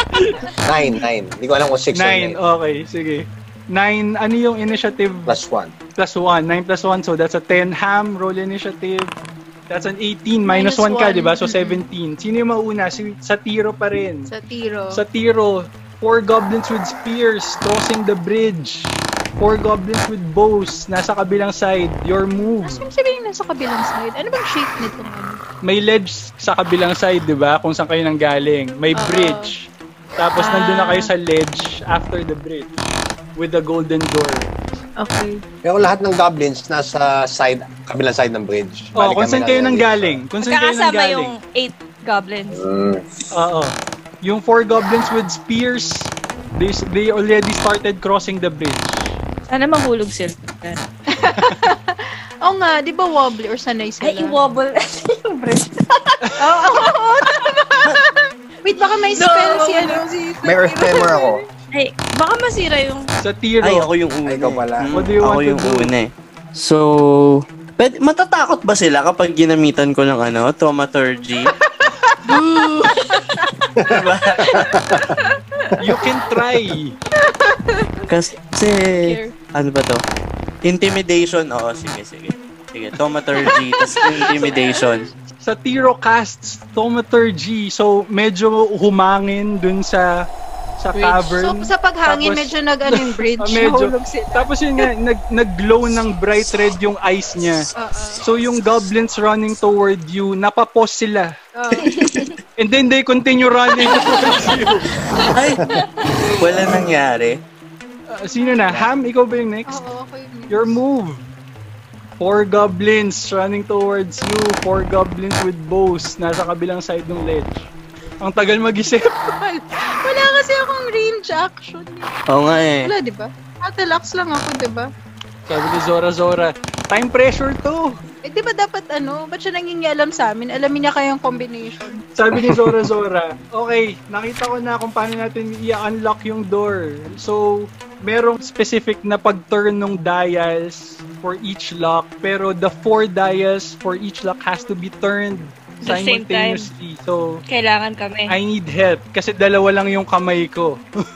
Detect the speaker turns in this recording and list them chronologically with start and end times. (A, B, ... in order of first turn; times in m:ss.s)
0:00.1-0:00.5 A
0:00.6-0:02.4 B
0:01.9-0:05.4 A
0:05.3-0:05.7 B
0:06.0-0:09.1 A
0:09.7-0:14.3 A
0:10.5-0:11.8 C
0:14.3-0:15.0 C
0:14.9-0:22.9 A
0:22.6-0:25.4 C
0:25.6-0:32.8 A
0:29.0-0:29.5 C
0:30.4-0:31.1 C
0:33.4-0:34.6 A
0:35.0-0:35.4 C
0:35.6-0:40.2 B
0:39.0-0:41.4 A
0:40.4-0:42.6 D
0:42.5-0:43.2 B
0:43.3-0:49.1 A
0:49.5-0:50.8 D
0:51.1-0:54.4 C
0:54.0-0:56.3 D
0:56.4-1:01.4 C
0:58.8-1:00.0 D
1:00.4-1:01.4 B
1:01.7-1:03.1 D
1:03.2-1:03.9 A
1:03.6-1:11.5 E
1:04.3-1:04.9 B
1:04.9-1:05.9 A
1:12.2-1:13.3 D
1:13.8-1:15.2 B
1:13.8-1:14.7 E
1:15.1-1:15.8 C
1:15.8-1:17.0 A
1:17.2-1:18.0 C
1:18.1-1:20.0 E
1:19.0-1:19.4 D
1:20.6-1:25.1 E
1:24.3-1:24.7 C
1:25.4-1:30.2 A
1:30.8-1:37.7 A
1:31.0-1:34.5 C
1:37.8-1:38.3 C
1:38.2-1:41.3 A
1:41.6-1:42.0 C
1:41.8-1:42.3 D
1:42.6-1:44.9 A
1:43.9-1:44.4 D
1:45.2-1:46.3 D
1:45.3-1:45.7 E
1:46.4-1:47.4 E
1:48.1-1:49.8 A
1:49.7-1:50.8 C
1:50.5-1:51.2 A
1:52.2-1:57.7 A
1:58.2-1:59.3 A
1:59.3-2:02.1 C
2:02.3-2:02.9 E
2:02.8-2:04.9 C
2:05.5-2:08.0 A
2:08.2-2:12.0 C
2:12.2-2:27.4 A
2:25.8-2:26.7 D
2:27.5-2:28.4 D
2:28.3-2:30.8 A